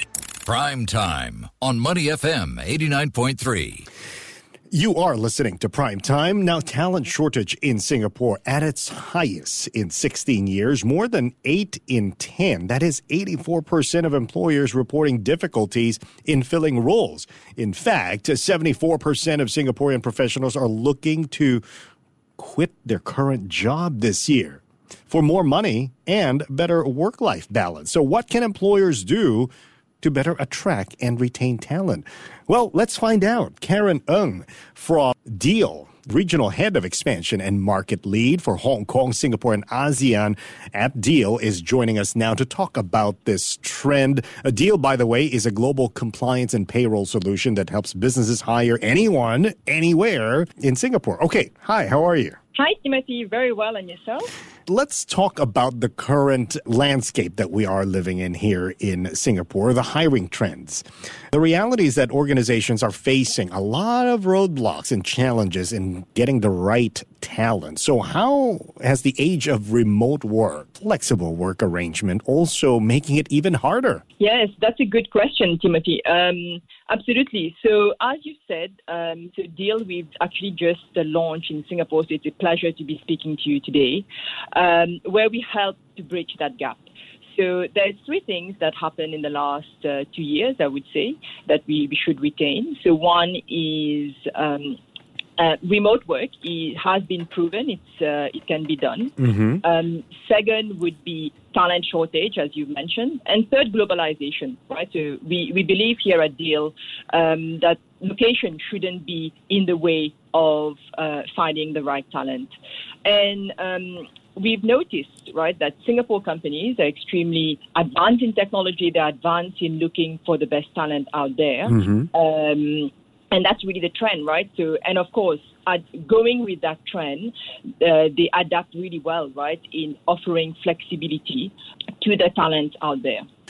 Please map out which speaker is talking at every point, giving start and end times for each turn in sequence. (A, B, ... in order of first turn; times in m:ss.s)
0:00.4-0:03.8 A
0:04.7-0:21.6 B
0:22.4-0:52.4 B
0:52.5-0:54.3 C
0:54.7-1:14.0 B
1:14.2-1:34.8 C
1:35.4-1:52.5 C
1:39.2-1:39.6 B
1:53.0-2:13.2 C
2:01.8-2:02.0 B